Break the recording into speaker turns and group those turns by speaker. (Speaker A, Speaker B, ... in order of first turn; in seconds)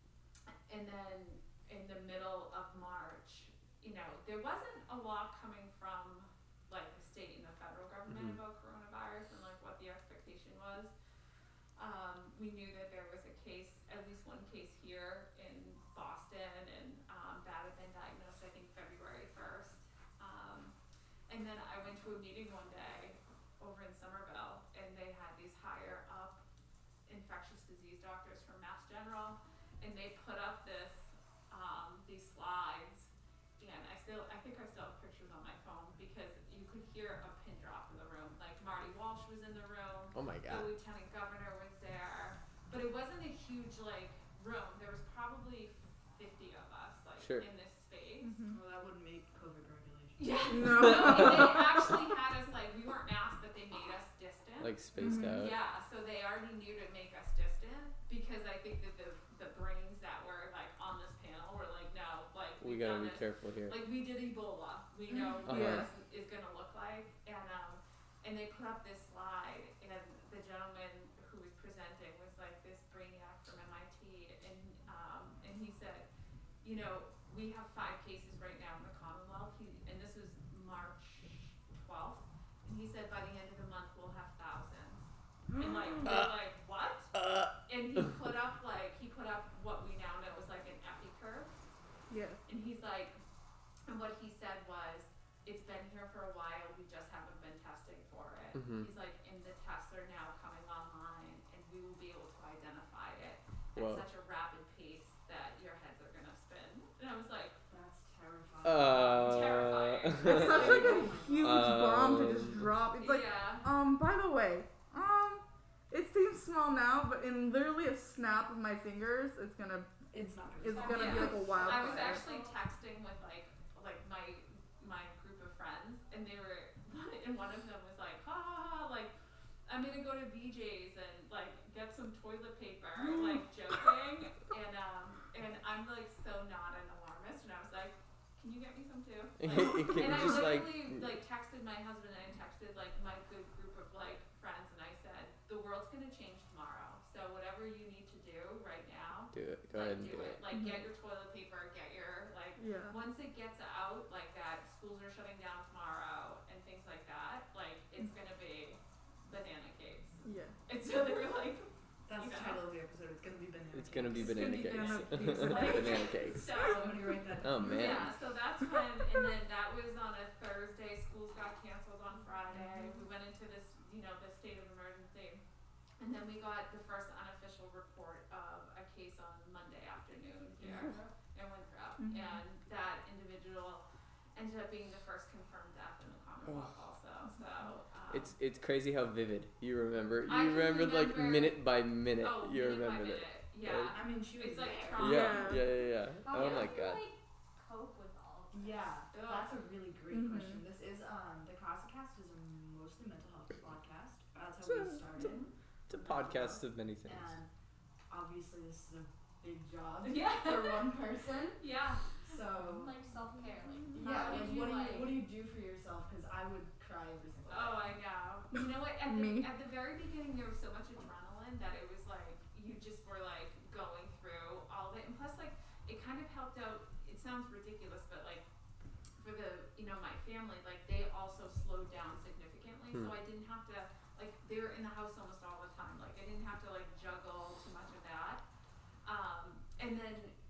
Speaker A: 0.7-10.9, 11.8-20.7, 21.3-26.4, 27.1-48.4, 50.2-76.1, 76.6-87.2, 87.7-91.5, 92.5-93.2, 93.9-107.6, 109.1-110.7, 113.0-113.7, 120.9-129.1, 129.7-162.7, 164.1-167.1, 167.6-175.4, 176.0-183.8, 184.3-188.3, 190.3-191.6, 192.2-195.7, 196.3-196.8, 199.1-199.5, 210.0-211.0, 211.6-212.1, 214.0-215.0, 217.5-228.4, 229.2-238.4, 239.1-240.3
Speaker B: 8.1-8.4, 40.1-40.7, 47.2-47.5, 54.6-55.5, 62.6-63.8, 65.5-65.9, 86.0-86.3, 87.2-87.5, 98.5-98.9, 103.8-104.0, 108.6-112.7, 139.4-140.9, 149.3-150.4, 163.7-166.6, 167.4-168.1, 186.4-186.8, 188.1-194.0, 195.0-197.0, 205.9-207.3
Speaker C: 48.2-48.6, 50.5-51.8, 55.0-55.4, 65.1-65.9, 85.5-86.2, 92.1-92.4, 110.2-119.9, 120.6-122.2, 150.5-150.9, 152.6-153.0, 160.2-160.6, 164.7-166.1, 182.0-182.4, 195.0-195.7, 200.1-200.6, 219.1-219.5
Speaker D: 48.5-51.1, 107.7-109.6, 110.2-111.8, 120.1-122.2, 162.1-168.1, 180.6-181.1, 193.9-195.3, 198.5-207.5, 208.1-211.6, 212.2-212.9, 213.9-218.0
Speaker E: 120.7-122.5, 196.2-198.9, 212.6-215.2